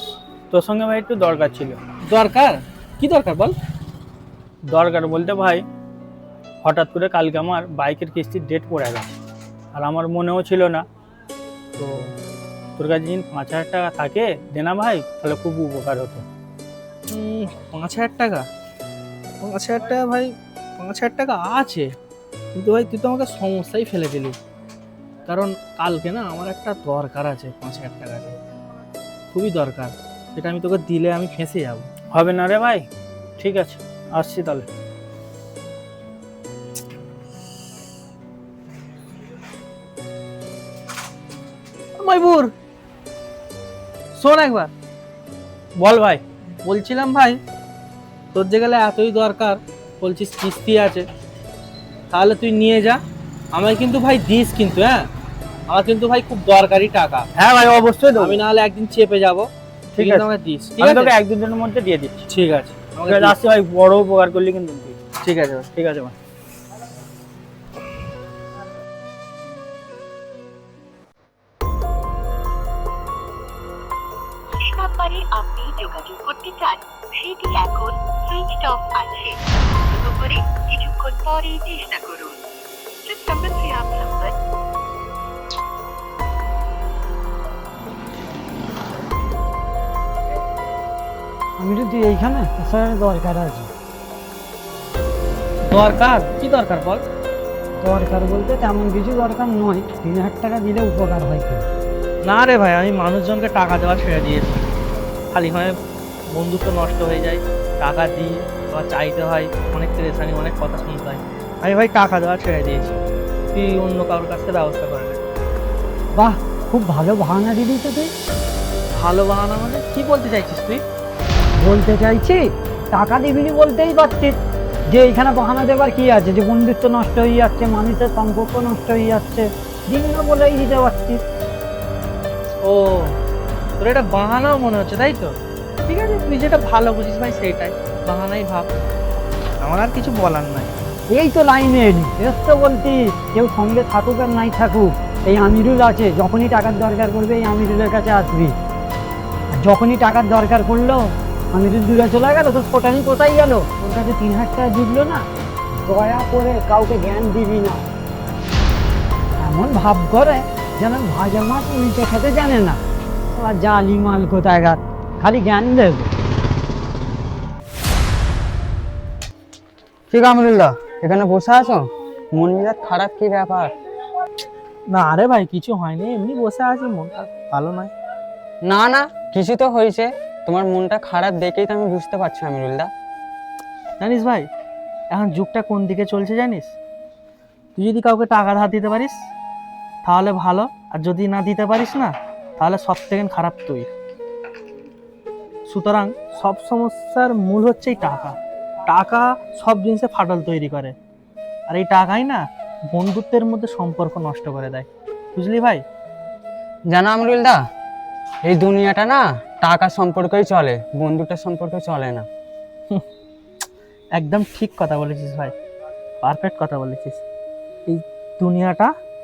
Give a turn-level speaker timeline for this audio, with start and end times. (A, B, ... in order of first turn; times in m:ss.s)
0:00.5-0:01.8 A
0:02.0-0:03.6 B
0:04.6-0:05.6 A
0:06.6-0:09.2 A
0:09.8-0:10.8 A
0:11.8-0:12.1 A
0:12.8-0:16.2 A
0:17.1-0:18.5 B
0:19.4-0:21.9 B
0:22.6-0:24.4 B
0:25.3-0:28.4 B
0:29.3-0:31.9 B
0:32.1-0:32.9 A
0:33.4-0:34.7 A
0:42.0-0:42.5 B
0:44.2-0:44.7 B
0:45.8-0:47.4 B
0:48.3-0:51.1 B
0:52.1-0:53.0 B
0:53.5-0:55.1 B
0:55.7-0:57.3 B
0:57.4-0:58.4 A
0:58.1-1:01.2 B
1:00.0-1:00.2 A
1:00.8-1:02.3 A
1:02.3-1:03.4 B
1:03.1-1:05.0 A
1:05.2-1:05.7 B
1:05.8-1:06.1 A
1:14.8-1:19.3 C
1:19.9-1:22.4 C
1:23.2-1:24.3 C
1:31.6-1:33.7 D
1:35.7-1:37.0 B
1:37.8-1:41.6 D
1:42.2-1:44.8 B
1:45.3-1:45.8 B
1:46.3-1:53.0 B
1:53.5-1:55.2 B
1:56.1-1:58.1 D
1:59.0-2:00.8 B
2:01.6-2:04.4 D
2:04.9-2:11.2 D
2:12.6-2:13.2 B
2:13.8-2:15.4 B
2:15.9-2:18.7 B
2:19.6-2:20.7 B
2:21.1-2:28.5 D
2:29.6-2:35.2 D
2:35.9-2:37.8 D
2:39.4-2:42.8 D
2:43.3-2:46.1 D
2:50.1-2:53.7 E
2:54.9-2:57.9 B
2:58.6-3:02.9 E
3:04.0-3:04.5 B
3:05.1-3:06.7 B
3:07.8-3:09.2 B
3:10.0-3:13.9 B
3:15.7-3:18.4 B
3:18.9-3:21.0 B
3:21.7-3:25.8 B
3:26.9-3:27.6 E
3:28.4-3:32.3 E
3:34.2-3:35.5 B
3:36.2-3:37.2 B
3:37.9-3:38.9 B